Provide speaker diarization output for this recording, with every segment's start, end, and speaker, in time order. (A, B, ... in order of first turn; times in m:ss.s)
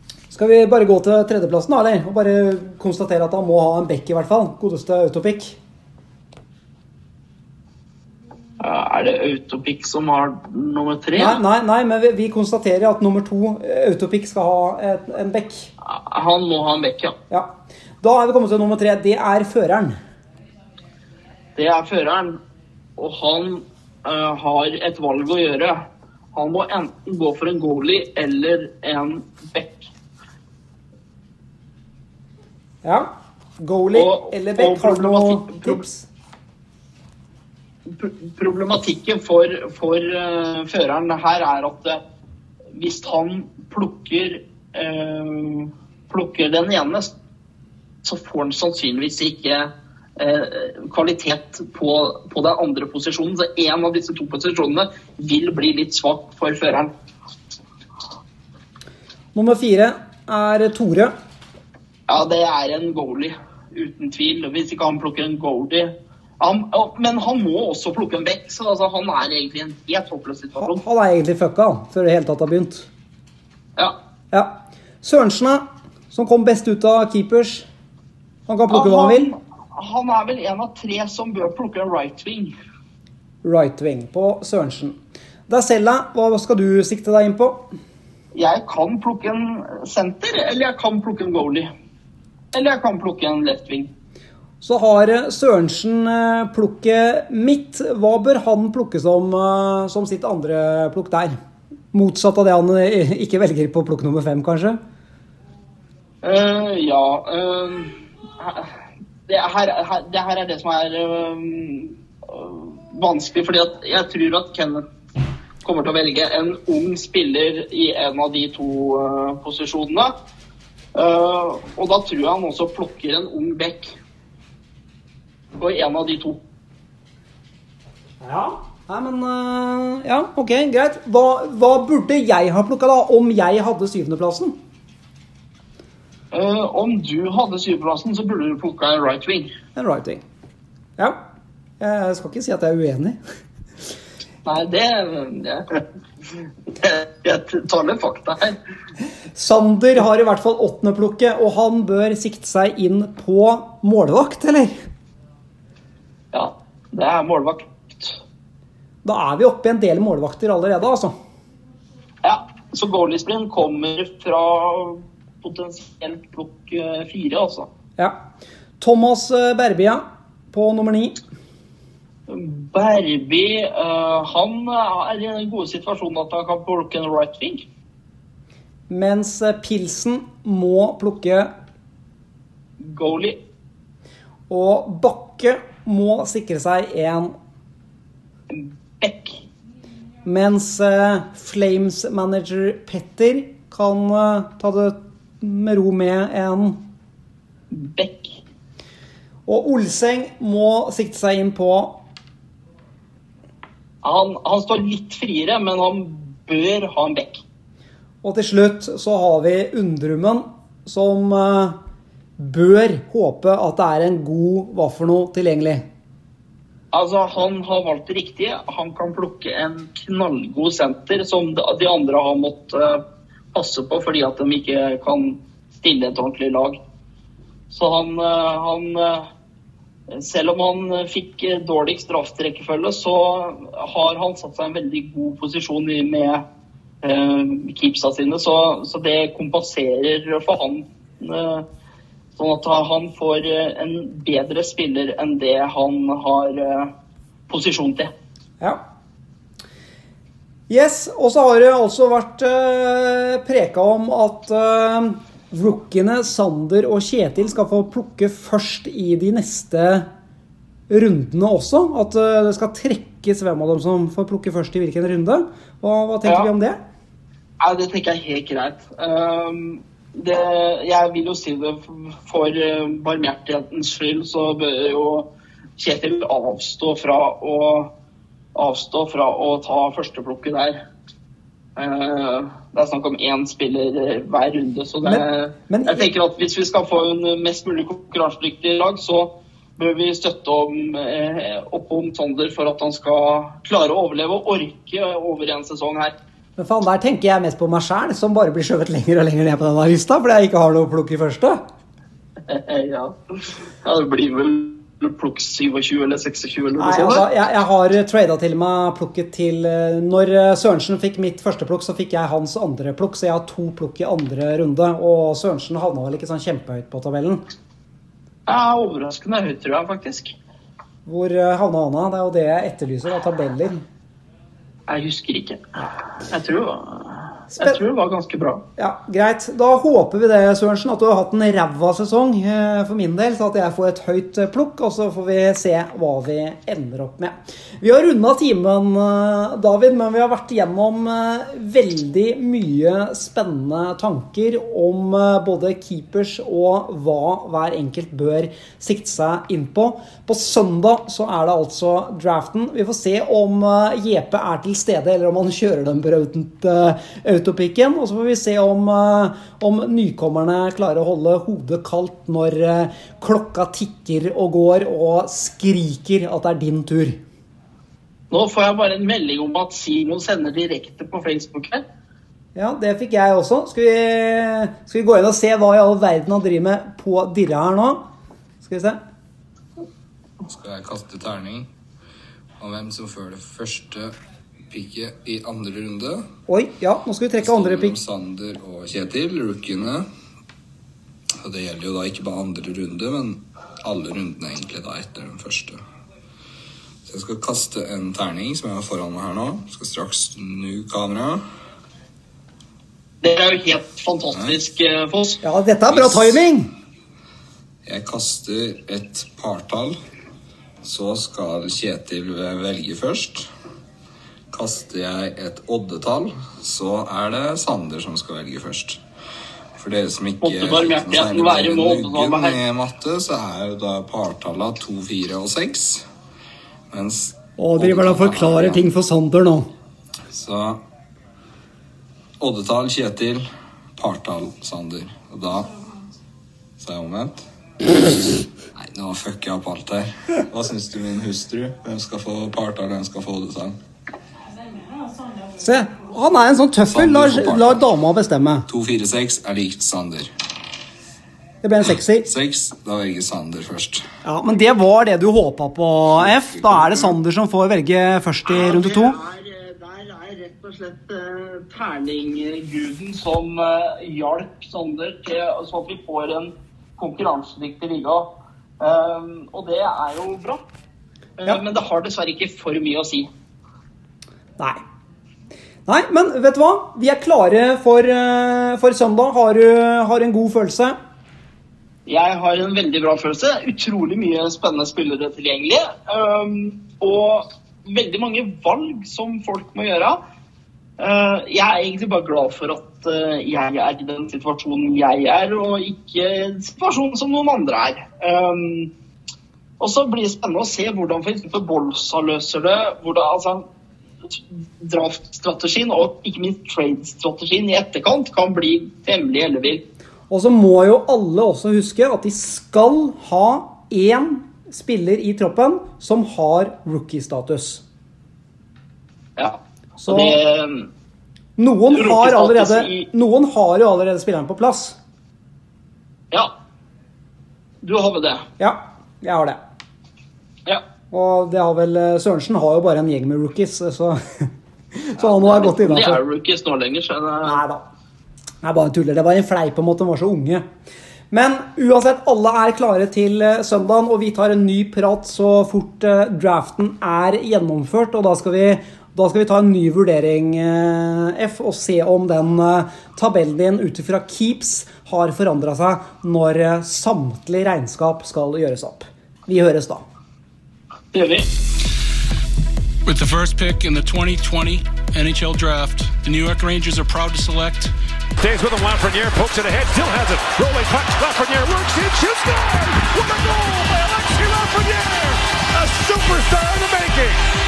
0:00.3-0:05.6 A
0:08.6-0:11.4 B
0:11.2-0:15.7 A
0:15.8-0:17.2 B
0:17.3-0:20.0 A
0:21.6-0:22.4 B
0:23.0-0:29.9 B
0:32.8-0:36.1 A
0:33.9-0:35.8 B
0:37.9-0:42.0 B
0:42.7-0:47.1 B
0:48.0-0:56.9 B
0:59.3-1:01.1 A
1:02.1-1:10.8 B
1:10.6-1:12.9 A
1:14.3-1:17.7 A
1:18.5-1:19.3 A
1:18.7-1:22.5 B
1:23.4-1:25.0 A
1:25.5-1:27.7 A
1:28.3-1:31.7 B
1:32.5-1:33.9 B
1:34.6-1:41.4 A
1:41.9-1:44.8 A
1:46.2-1:48.7 B
1:49.3-1:54.8 B
1:55.6-2:00.1 B
2:00.9-2:04.0 B
2:05.6-2:06.4 B
2:08.2-2:14.6 A
2:16.3-2:19.5 B
2:19.8-2:20.2 A
2:21.0-2:21.2 A
2:21.8-2:23.2 A
2:24.4-2:25.8 B
2:26.7-2:28.6 B
2:29.3-2:34.8 A
2:36.3-2:38.2 B
2:39.0-2:41.1 A
2:42.2-2:47.7 B
2:48.8-2:51.2 A
2:52.3-2:57.6 B
2:58.9-3:01.5 A
3:02.8-3:03.4 B
3:04.5-3:07.3 A
3:08.5-3:09.4 B
3:10.2-3:16.8 A
3:17.7-3:18.4 B
3:19.4-3:22.0 A
3:24.0-3:27.4 B
3:28.2-3:31.8 A
3:32.4-3:35.8 A
3:36.9-3:43.0 B
3:43.5-3:46.8 B
3:47.7-3:49.3 B
3:50.1-3:56.4 B
3:57.0-4:01.6 B
4:02.4-4:06.9 B
4:07.5-4:08.1 B
4:10.7-4:20.1 A
4:20.9-4:26.8 A
4:26.2-4:26.5 B
4:27.6-4:37.9 B
4:38.5-4:40.8 B
4:41.8-4:56.1 B
4:45.0-4:46.1 A
4:56.6-5:01.6 A
5:02.5-5:07.2 B
5:06.8-5:17.4 A
5:18.5-5:20.3 B
5:21.0-5:23.8 A
5:24.9-5:25.6 B
5:26.2-5:28.6 B
5:28.8-6:07.2 A
6:08.3-6:11.8 B
6:12.5-6:18.0 A
6:18.6-6:19.0 A
6:20.4-6:21.7 C
6:22.6-6:24.1 C
6:24.7-6:26.3 C
6:26.5-6:28.0 A
6:27.4-6:30.1 C
6:31.4-6:35.8 C
6:37.0-6:41.4 C
6:43.2-6:45.4 B
6:45.4-6:46.7 A
6:47.8-6:49.9 C
6:50.8-6:53.5 C
6:54.5-6:59.0 C
6:59.8-7:06.0 C
7:00.4-7:02.6 B
7:06.9-7:08.8 C
7:07.6-7:09.7 A
7:10.3-7:10.8 C
7:12.4-7:13.4 C
7:14.0-7:15.8 C
7:16.8-7:23.8 C
7:25.6-7:28.7 A
7:26.9-7:27.8 C
7:28.7-7:30.3 C
7:31.6-7:32.3 A
7:32.2-7:34.0 C
7:34.2-7:39.2 A
7:36.6-7:36.9 C
7:38.4-7:50.6 B
7:51.4-7:53.3 B
7:55.8-8:01.0 A
8:02.0-8:10.2 B
8:11.0-8:18.9 B
8:19.8-8:23.6 B
8:24.3-8:29.8 B
8:30.3-8:37.8 A
8:39.4-8:40.9 B
8:40.0-8:40.4 A
8:41.6-8:45.0 A
8:41.9-8:43.1 B
8:47.8-8:48.5 B
8:48.6-8:49.6 A
8:51.1-8:56.2 A
8:55.2-8:57.6 B
8:57.4-8:57.8 A
8:58.6-9:00.6 A
9:01.3-9:20.0 A
9:21.1-9:21.5 B
9:23.0-9:27.9 D
9:28.4-9:37.4 E